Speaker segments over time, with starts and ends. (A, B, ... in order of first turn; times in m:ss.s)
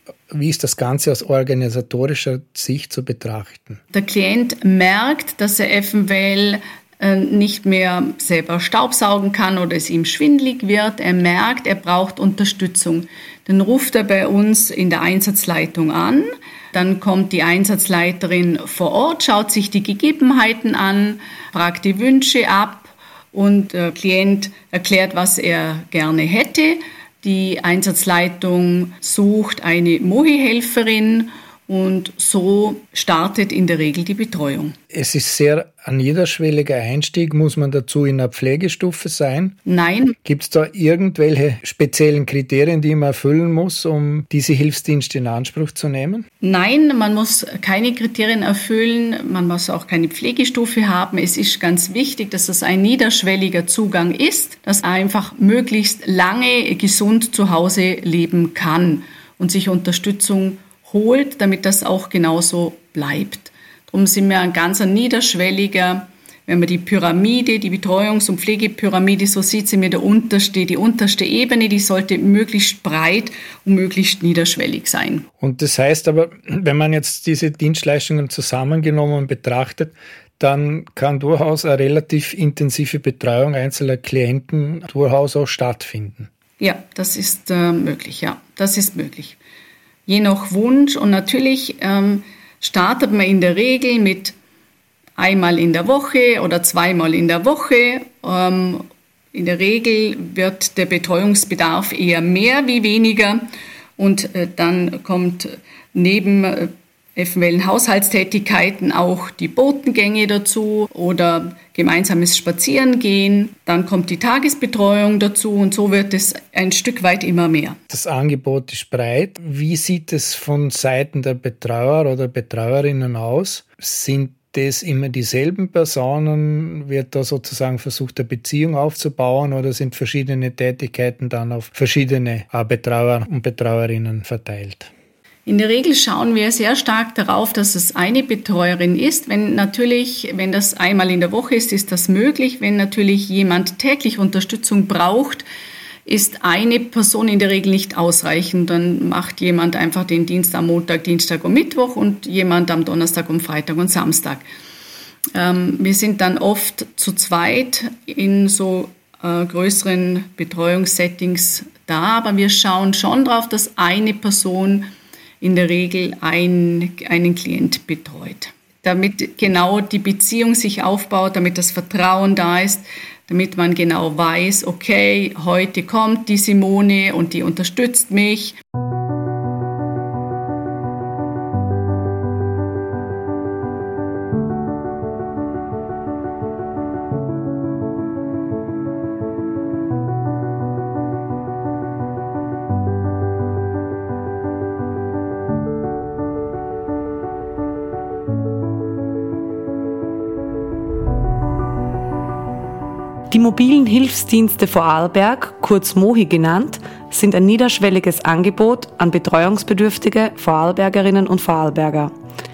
0:00.3-0:03.8 A
0:03.9-0:34.8 B
0:34.9-0:39.6 A
0:39.6-0:40.2 B
0:40.2-0:46.3 A
0:46.4-1:15.3 B
1:15.4-1:26.3 A
1:26.6-1:29.4 B
1:30.1-1:34.3 B
1:35.2-1:43.4 B
1:44.0-1:57.8 B
1:57.9-2:14.9 A
2:15.5-2:25.4 B
2:26.1-2:34.4 B
2:35.4-2:44.9 B
2:45.4-2:58.6 B
3:23.3-3:32.1 C